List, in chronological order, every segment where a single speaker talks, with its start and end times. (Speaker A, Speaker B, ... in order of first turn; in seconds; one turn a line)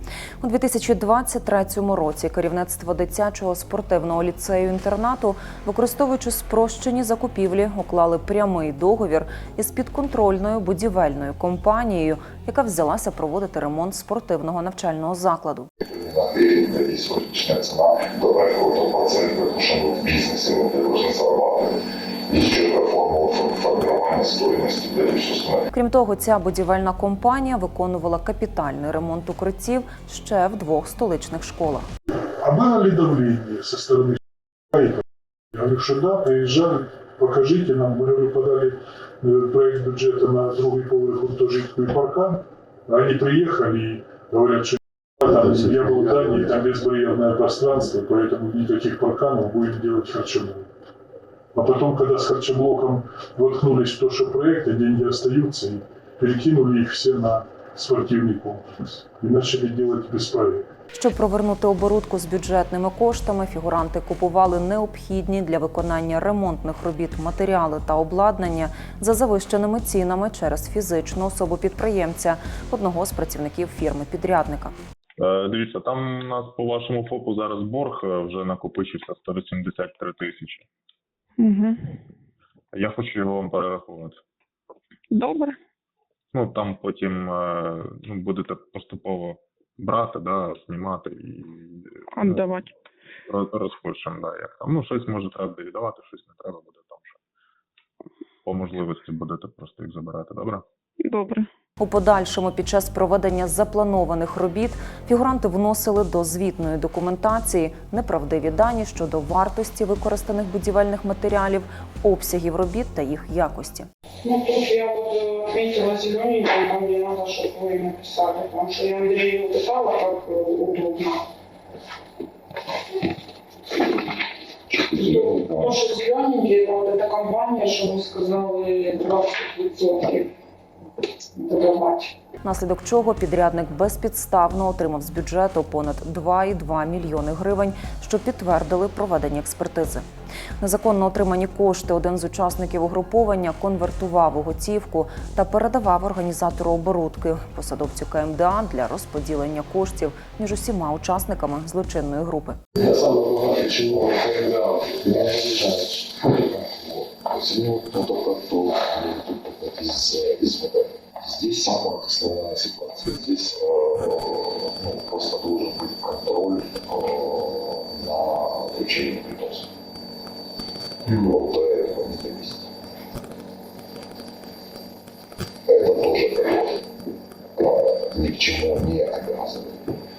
Speaker A: 0.4-15.7
Speaker B: 15.8-25.7
Speaker A: 25.7-31.9
Speaker C: 32.4-34.2
Speaker C: 34.7-35.0
Speaker C: 35.5-50.7
Speaker C: 51.5-60.6
Speaker A: 60.9-74.7
Speaker D: 75.2-80.7
Speaker E: 81.4-81.8
Speaker D: 82.7-84.2
Speaker E: 85.1-85.6
Speaker D: 86.3-92.5
Speaker E: 92.1-92.7
Speaker D: 93.3-97.2
Speaker D: 98.4-100.6
Speaker E: 101.0-101.5
Speaker A: 101.8-113.9
Speaker E: 114.2-121.2
Speaker B: 124.7-125.8
Speaker E: 125.5-130.3
Speaker E: 131.3-132.2
Speaker A: 132.4-140.0
Speaker A: 140.6-152.6
Speaker B: 152.7-169.7
Speaker B: 171.0-172.7
Speaker B: 175.7-176.8
Speaker B: 177.6-180.0